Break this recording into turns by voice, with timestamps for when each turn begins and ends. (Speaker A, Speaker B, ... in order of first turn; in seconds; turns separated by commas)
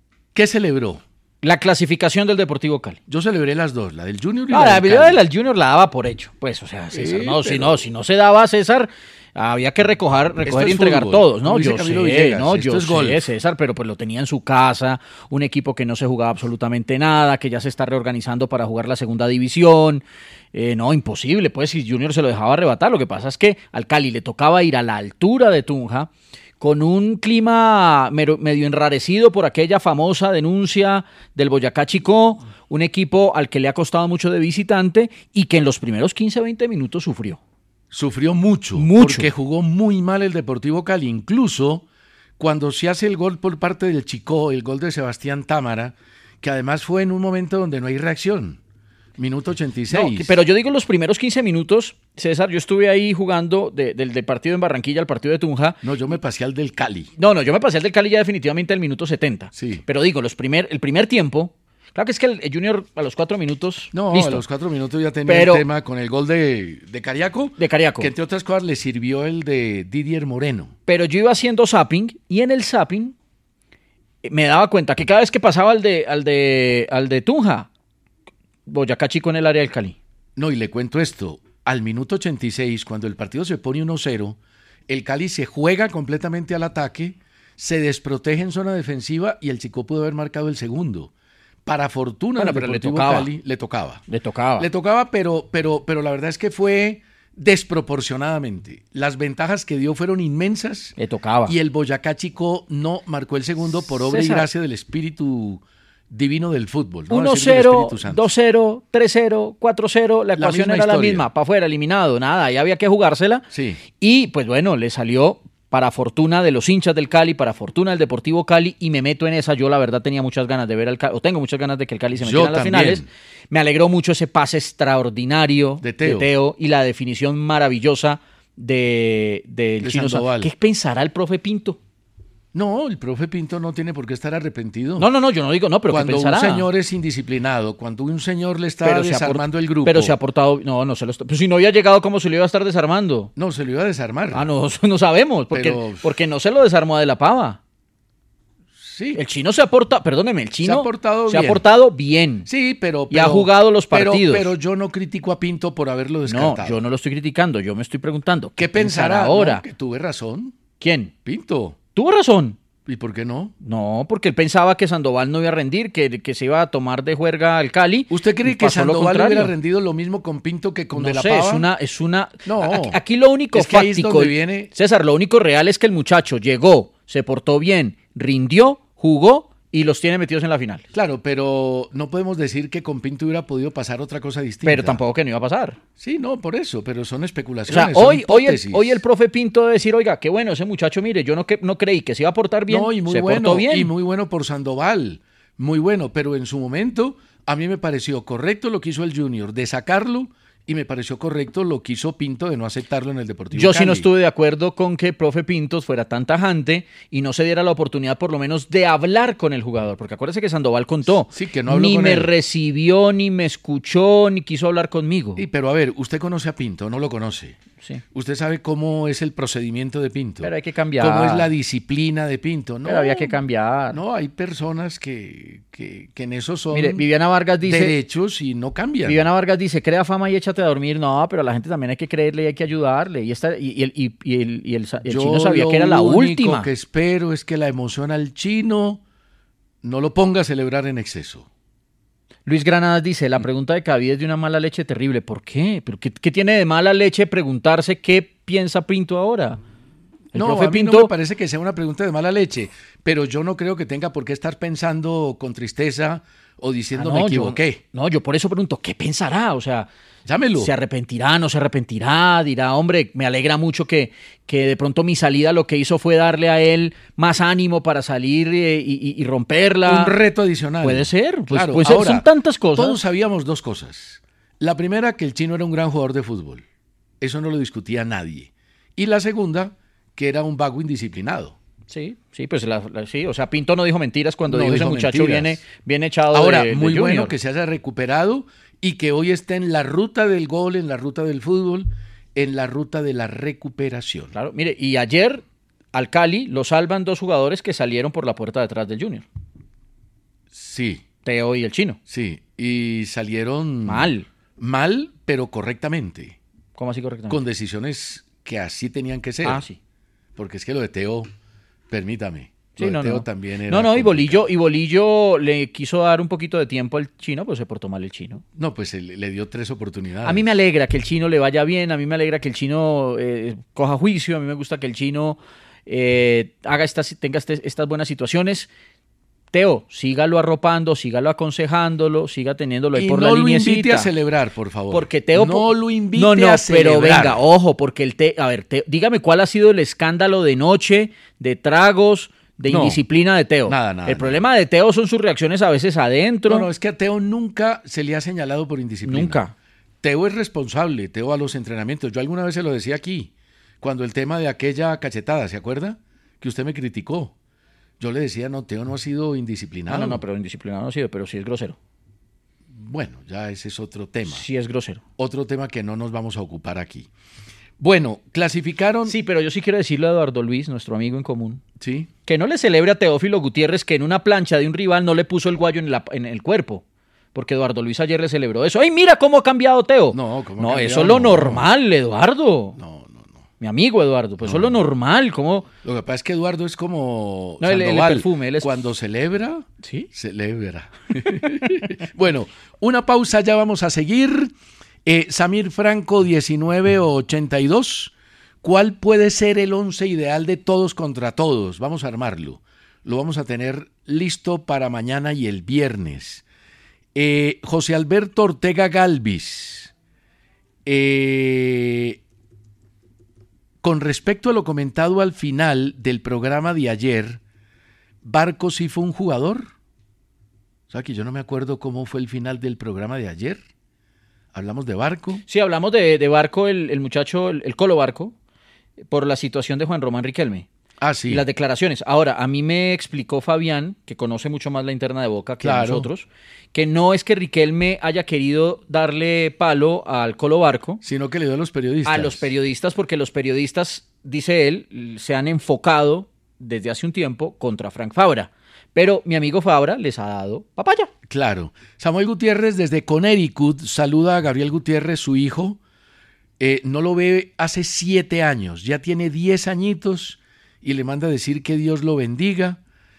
Speaker A: 0.3-1.0, Speaker B: 1.4-3.0, Speaker A: 3.1-5.2, Speaker B: 4.5-37.4, Speaker A: 6.9-7.9, Speaker A: 10.4-13.2, Speaker A: 37.9-41.9, Speaker B: 38.8-39.3, Speaker A: 42.4-48.6, Speaker A: 49.2-50.4, Speaker B: 49.9-55.8, Speaker A: 55.8-57.1, Speaker B: 57.2-64.4, Speaker A: 59.5-59.8, Speaker A: 63.9-70.7, Speaker B: 65.2-65.6, Speaker B: 67.6-68.1, Speaker B: 70.9-73.1, Speaker B: 74.2-77.7, Speaker B: 78.7-80.0, Speaker A: 80.4-91.1, Speaker A: 91.6-94.0, Speaker B: 92.4-93.3, Speaker B: 94.1-94.7, Speaker A: 94.6-100.9, Speaker B: 101.0-101.5, Speaker A: 101.5-108.3, Speaker B: 104.0-104.5, Speaker B: 107.1-131.8, Speaker A: 110.3-111.3, Speaker A: 113.5-113.8, Speaker A: 122.2-123.1, Speaker A: 125.8-126.3, Speaker A: 129.8-130.5, Speaker A: 132.5-135.1, Speaker B: 135.0-136.7, Speaker A: 135.9-140.2, Speaker B: 138.8-143.3, Speaker A: 143.3-144.5, Speaker B: 144.3-147.6, Speaker A: 145.5-146.1, Speaker A: 148.8-149.2, Speaker B: 149.1-152.5, Speaker A: 150.6-151.6, Speaker A: 152.4-156.8, Speaker B: 153.1-154.5, Speaker B: 156.3-159.6, Speaker A: 158.6-160.5, Speaker B: 160.8-161.1, Speaker A: 161.2-161.8, Speaker B: 161.9-162.6, Speaker A: 162.8-163.5, Speaker B: 163.6-169.5, Speaker A: 168.1-171.7, Speaker B: 170.9-180.8, Speaker A: 172.4-173.0, Speaker A: 173.5-174.7, Speaker A: 180.9-185.0, Speaker B: 184.6-185.8, Speaker A: 186.0-189.0, Speaker B: 187.7-193.9, Speaker A: 192.7-204.1, Speaker B: 203.5-215.4, Speaker A: 211.3-212.3, Speaker A: 215.3-217.6, Speaker A: 218.1-223.3, Speaker B: 220.4-221.5, Speaker B: 222.8-224.0, Speaker A: 223.9-227.0, Speaker B: 226.7-228.0, Speaker A: 227.6-229.2, Speaker B: 229.0-236.7, Speaker A: 235.1-239.0, Speaker A: 239.8-241.5, Speaker B: 242.4-249.6, Speaker B: 250.3-251.1, Speaker A: 250.3-257.8, Speaker B: 256.9-259.9, Speaker A: 260.2-260.7, Speaker B: 260.6-270.1, Speaker A: 269.8-276.6, Speaker B: 270.8-273.0, Speaker A: 277.2-281.6, Speaker B: 281.9-287.3, Speaker A: 284.5-285.6, Speaker A: 286.3-294.3, Speaker B: 294.3-299.2, Speaker A: 300.5-301.0, Speaker B: 301.2-302.0, Speaker A: 302.1-306.4, Speaker B: 303.9-304.3, Speaker B: 306.8-307.4, Speaker A: 307.3-309.6, Speaker B: 309.4-309.8, Speaker A: 310.4-311.3, Speaker A: 311.9-314.4, Speaker B: 312.8-318.4, Speaker A: 318.5-320.4, Speaker B: 320.2-328.7, Speaker B: 329.5-334.1, Speaker A: 332.9-337.4, Speaker B: 334.9-346.7, Speaker A: 342.7-343.0, Speaker A: 343.6-344.4, Speaker A: 346.5-349.4, Speaker B: 349.0-349.5, Speaker A: 350.0-357.3, Speaker A: 358.0-360.2, Speaker B: 359.9-361.8, Speaker A: 362.7-364.4, Speaker B: 364.3-365.0, Speaker A: 365.2-367.1, Speaker A: 367.8-369.1, Speaker B: 369.1-371.6, Speaker A: 371.8-372.1, Speaker B: 372.2-382.8, Speaker A: 380.1-381.6, Speaker A: 382.8-383.4, Speaker B: 383.6-385.7, Speaker A: 384.4-384.8, Speaker A: 385.8-394.5, Speaker B: 387.6-388.8, Speaker B: 389.8-390.1, Speaker A: 395.0-406.4, Speaker A: 407.1-409.9, Speaker A: 410.9-412.2, Speaker A: 413.8-417.4, Speaker A: 418.2-419.7, Speaker A: 420.9-423.6, Speaker A: 424.5-425.4, Speaker B: 425.5-428.3, Speaker B: 429.1-430.7, Speaker A: 431.0-431.4, Speaker B: 431.3-441.0, Speaker A: 435.6-436.1, Speaker A: 441.0-442.5, Speaker B: 442.1-451.1, Speaker A: 451.3-455.8, Speaker A: 456.6-462.8